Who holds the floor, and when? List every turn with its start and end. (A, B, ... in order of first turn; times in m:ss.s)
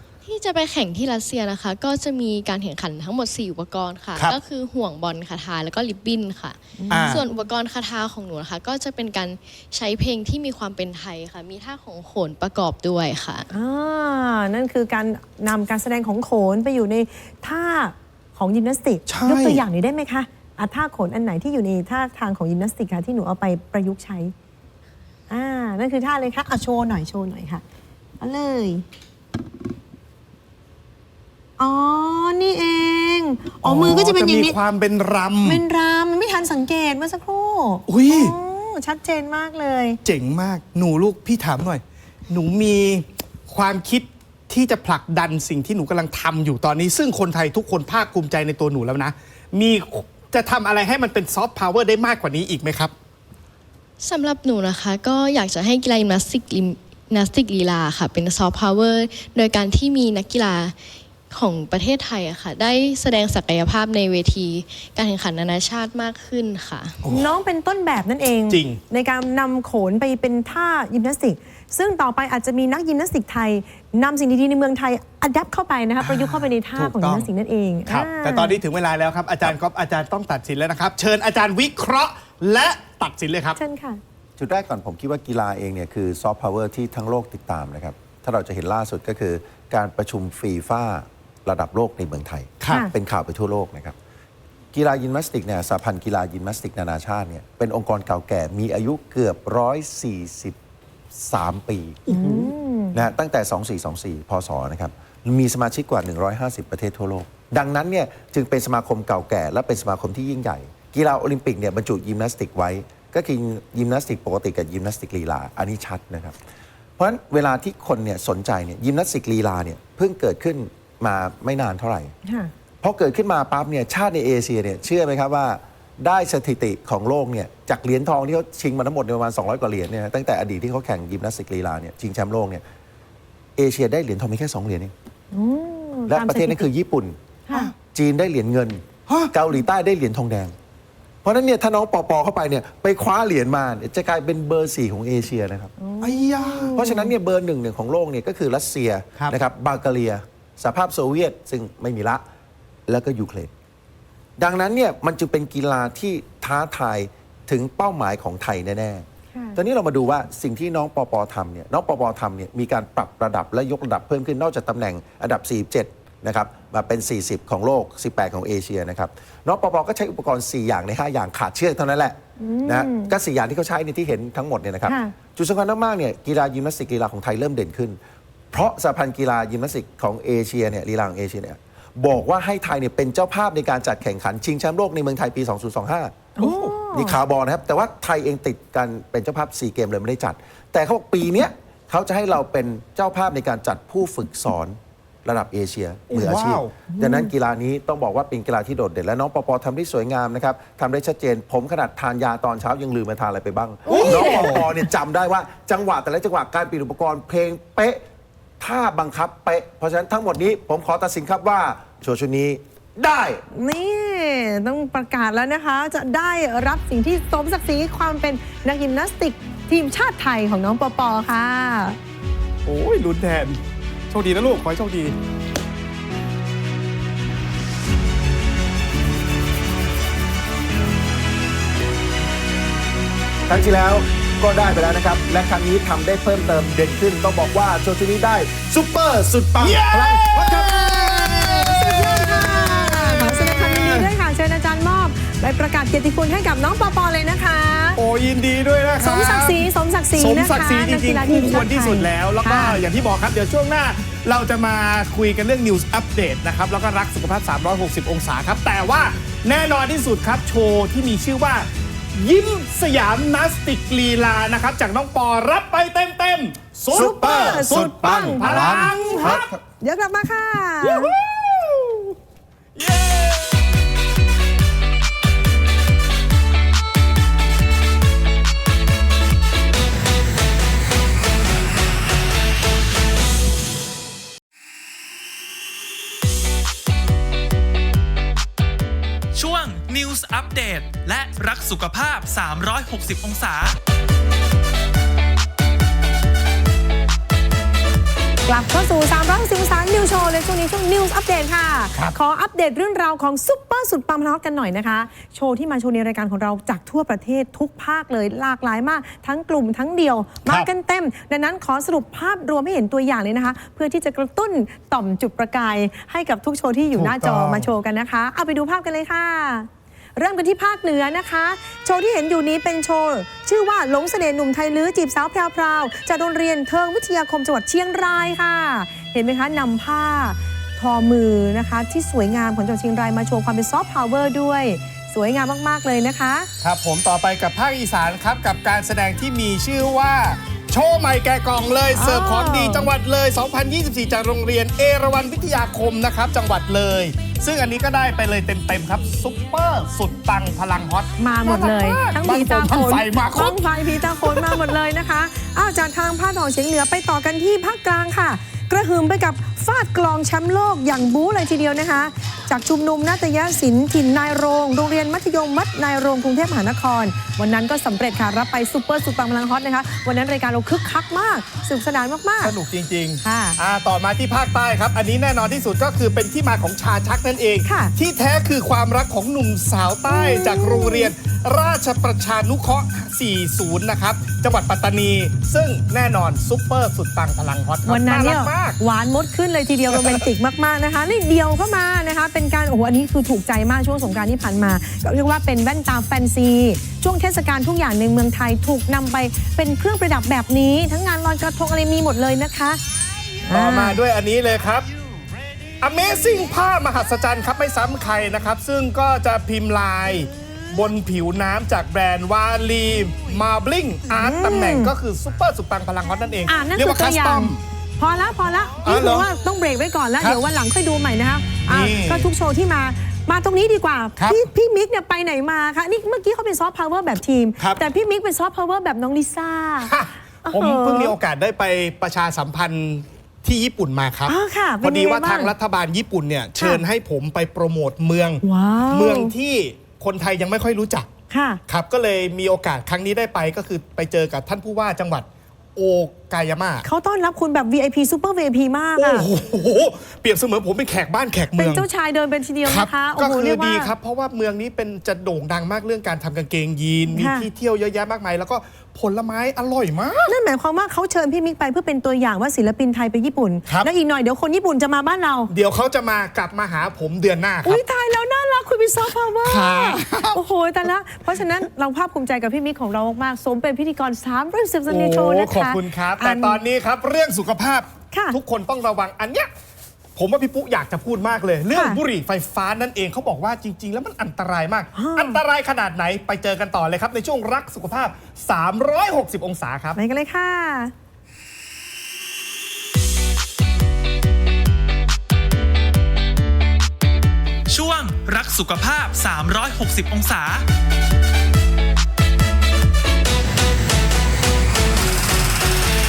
0:00.2-0:13.5 A
0:06.8-0:07.4 B
0:06.9-0:07.2 C
0:13.5-0:24.3 B
0:19.1-0:19.6 C
0:25.3-0:27.6 B
0:28.2-0:28.8 B
0:31.6-0:34.6 B
0:33.6-0:35.6 C
0:35.4-0:40.0 B
0:37.9-0:38.4 C
0:40.0-0:52.9 C
0:54.0-1:00.7 A
1:01.3-1:07.0 A
1:07.0-1:07.3 C
1:07.1-1:18.6 B
1:08.5-1:08.8 C
1:16.0-1:17.3 C
1:17.9-1:23.6 C
1:23.6-1:24.0 B
1:24.4-1:33.9 D
1:32.6-1:32.8 C
1:34.7-1:40.6 D
1:41.1-1:42.1 D
1:42.1-1:42.5 C
1:42.1-1:43.0 B
1:42.9-1:56.4 D
1:57.0-2:02.1 D
2:02.2-2:02.5 B
2:02.8-2:12.6 D
2:13.6-2:14.9 D
2:15.3-2:16.7 B
2:16.1-2:17.2 D
2:17.9-2:20.5 D
2:19.1-2:19.3 C
2:21.2-2:25.7 D
2:25.8-2:27.1 B
2:26.0-2:26.7 C
2:26.7-2:32.2 D
2:32.9-2:33.5 D
2:34.4-2:58.0 D
2:52.4-2:53.1 B
2:54.9-2:55.1 B
2:58.5-3:06.4 D
3:06.4-3:07.2 B
3:06.4-3:06.7 C
3:06.9-3:28.0 D
3:16.1-3:16.7 C
3:16.9-3:17.3 B
3:23.8-3:24.7 B
3:23.9-3:24.6 C
3:28.6-3:33.4 D
3:33.5-3:42.0 B
3:42.6-3:45.1 C
3:53.5-4:01.4 D
3:59.6-4:04.1 C
4:00.8-4:08.0 B
4:08.0-4:29.4 C
4:09.0-4:12.8 B
4:26.9-4:29.6 D
4:26.9-4:31.2 B
4:30.8-4:32.1 C
4:32.8-4:33.7 C
4:49.3-4:53.8 E
4:58.4-5:36.5 B
5:16.9-5:17.7 C
5:36.6-5:53.6 C
5:41.9-5:42.9 B
5:51.2-6:12.5 B
5:54.2-5:54.7 C
6:12.4-6:28.8 C
6:13.2-6:13.6 B
6:17.6-6:17.9 B
6:20.1-6:21.1 B
6:27.8-6:42.8 B
6:29.9-6:30.2 C
6:43.4-6:44.0 B
6:43.5-6:44.9 C
6:45.8-6:57.6 C
6:54.2-6:54.9 B
6:56.5-7:09.9 B
6:58.8-6:59.3 C
7:01.7-7:02.3 C
7:04.2-7:04.4 C
7:07.6-7:07.8 C
7:09.8-7:21.1 C
7:10.4-7:11.1 B
7:14.3-7:15.5 B
7:16.6-7:16.8 B
7:18.4-7:19.3 B
7:21.3-7:21.6 B
7:21.7-7:26.8 C
7:26.8-7:29.3 B
7:29.0-7:31.8 C
7:31.6-7:33.9 B
7:32.6-7:40.3 C
7:37.2-7:37.5 B
7:40.3-7:45.5 B
7:45.5-7:47.8 C
7:47.6-7:56.6 B
7:49.4-7:50.4 C
7:54.9-7:59.5 C
7:58.1-7:58.4 B
8:00.2-8:10.0 C
8:01.7-8:02.0 B
8:05.0-8:05.4 B
8:10.0-8:10.9 B
8:17.7-8:20.7 E